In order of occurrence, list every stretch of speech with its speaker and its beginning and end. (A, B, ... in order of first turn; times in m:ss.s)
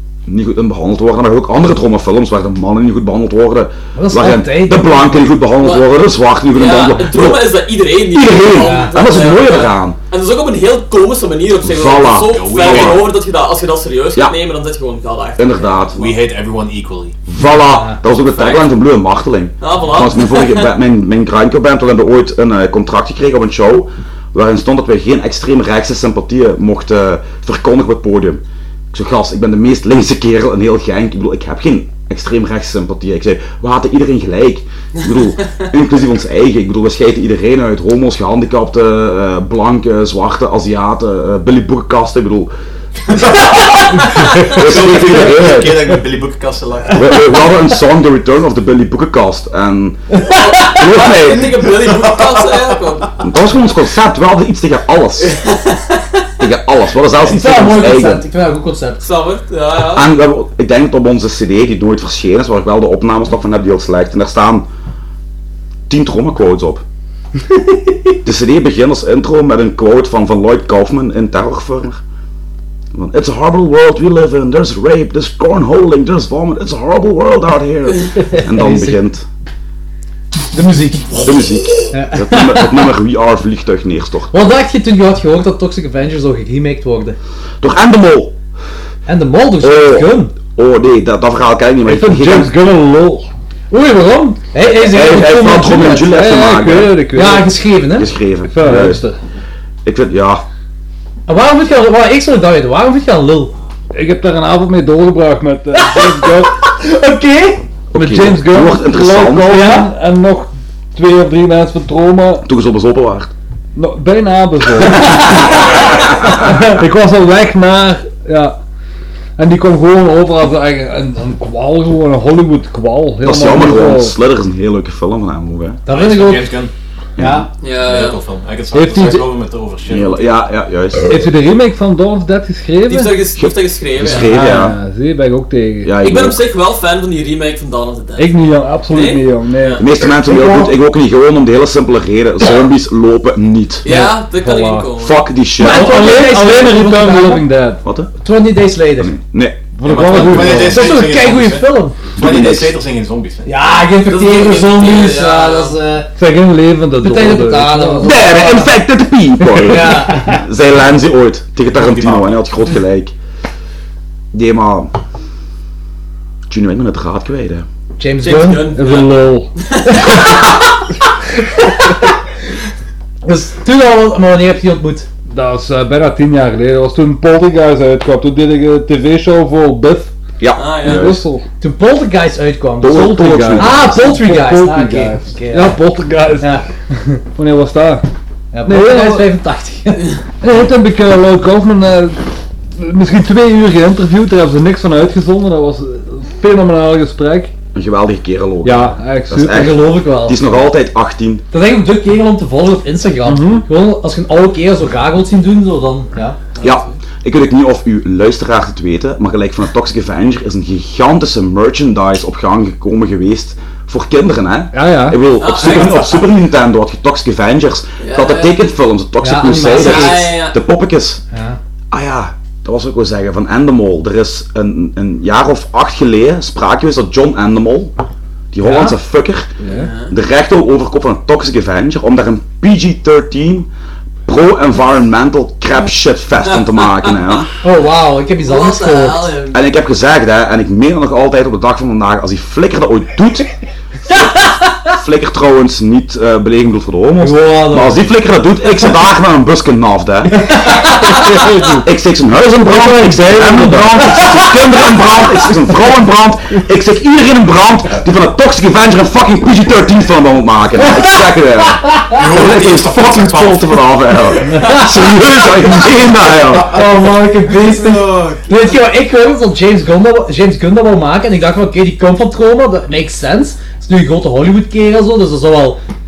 0:00.3-0:07.5 A
0:03.9-0:05.4 B
0:05.6-0:05.9 C
0:06.5-0:15.8 C
0:08.1-0:10.0 A
0:08.5-0:09.2 B
0:11.6-0:13.0 A
0:12.3-0:13.1 D
0:15.4-0:16.1 A
0:15.9-0:17.2 D
0:17.2-0:42.5 A
0:17.5-0:18.0 B
0:18.3-0:18.7 C
0:19.6-0:20.7 C
0:43.1-0:47.4 D
0:44.0-0:46.0 A
0:44.0-0:44.3 C
0:46.9-0:50.0 A
0:50.3-0:53.1 C
0:50.7-0:51.5 A
0:51.6-0:52.7 D
0:53.2-0:55.4 A
0:55.3-0:56.0 C
0:56.4-0:58.2 A
0:57.2-0:59.0 B
0:59.0-1:00.1 C
0:59.9-1:04.7 A
1:05.9-1:06.8 A
1:08.2-1:12.0 A
1:12.9-1:19.2 A
1:18.2-1:19.0 B
1:20.5-1:22.9 B
1:21.2-1:24.3 A
1:24.3-1:27.2 B
1:27.6-1:28.4 A
1:29.1-1:30.3 B
1:29.6-1:32.5 A
1:31.8-1:33.3 E
1:33.7-1:36.0 B
1:34.6-1:37.0 A
1:35.1-1:37.5 E
1:37.1-1:38.1 B
1:38.0-1:39.0 A
1:38.4-1:39.2 E
1:39.8-1:40.4 A
1:41.3-1:43.5 B
1:43.9-1:46.6 E
1:45.7-1:47.6 B
1:47.9-1:49.7 A
1:47.9-1:52.4 E
1:49.4-1:49.9 B
1:52.4-1:53.3 A
1:53.7-1:55.6 E
1:55.1-1:56.7 A
1:55.1-1:55.5 B
1:56.3-1:58.6 E
1:59.4-2:04.2 E
2:03.2-2:05.8 A
2:05.8-2:06.5 B
2:05.9-2:06.7 D
2:07.2-2:07.5 A
2:07.2-2:07.5 B
2:07.6-2:08.2 C
2:07.7-2:10.3 D
2:08.7-2:09.3 E
2:09.9-2:11.2 A
2:11.1-2:13.2 E
2:12.9-2:14.4 C
2:13.3-2:14.8 A
2:14.1-2:15.9 E
2:15.8-2:16.4 A
2:16.0-2:18.3 C
2:18.2-2:20.7 E
2:18.9-2:19.8 C
2:19.8-2:23.9 A
2:23.8-2:25.3 C
2:23.8-2:24.9 E
2:25.0-2:26.1 A
2:25.6-2:27.4 B
2:25.6-2:27.8 E
2:27.8-2:28.1 A
2:28.2-2:29.1 B
2:29.0-2:29.6 A
2:29.8-2:30.9 E
2:29.8-2:33.5 D
2:30.3-2:32.0 B
2:32.2-2:32.7 A
2:33.4-2:36.1 B
2:34.0-2:35.8 C
2:36.2-2:38.1 E
2:37.0-2:38.8 B
2:38.0-2:43.1 A
2:39.4-2:40.4 B
2:41.7-2:42.4 D
2:44.3-2:44.9 A
2:46.5-2:47.6 A
2:48.0-2:48.7 B
2:48.2-2:50.4 C
2:48.6-2:49.5 E
2:50.0-2:50.2 B
2:51.4-2:52.1 B
2:53.2-2:55.1 B
2:55.3-3:00.1 E
3:00.4-3:01.2 A
3:00.5-3:01.1 C
3:00.8-3:01.4 E
3:01.6-3:05.8 B
3:02.8-3:04.0 A
3:02.8-3:06.6 E
3:06.4-3:07.2 B
3:07.4-3:08.1 E
3:08.5-3:10.2 B
3:08.6-3:09.3 E
3:10.4-3:12.2 E
3:12.7-3:17.5 E
3:17.7-3:21.4 A
3:18.6-3:19.8 E
3:19.4-3:20.6 B
3:21.5-3:26.4 B
3:23.2-3:23.6 E
3:26.6-3:26.9 C
3:26.6-3:41.2 A
3:34.7-3:35.2 E
3:35.4-3:36.2 C
3:35.6-3:36.1 D
3:38.0-3:38.6 C
3:39.2-3:40.4 B
3:39.6-3:40.6 C
3:41.3-3:41.6 B
3:41.9-3:47.9 A
3:48.5-3:49.5 A
3:48.6-3:49.0 B
3:49.6-3:49.9 E
3:49.7-3:50.1 C
3:50.1-3:53.7 A
3:54.2-3:57.5 A
3:57.6-3:59.3 B
3:58.4-3:59.6 C
3:59.5-4:03.5 A
4:04.9-4:10.4 A
4:07.2-4:08.1 B
4:10.3-4:11.4 B
4:11.0-4:11.9 E
4:11.8-4:26.8 A
4:12.6-4:14.4 E
4:14.2-4:14.6 B
4:22.1-4:23.9 D
4:24.5-4:24.9 B
4:26.5-4:35.8 B
4:27.5-4:28.6 D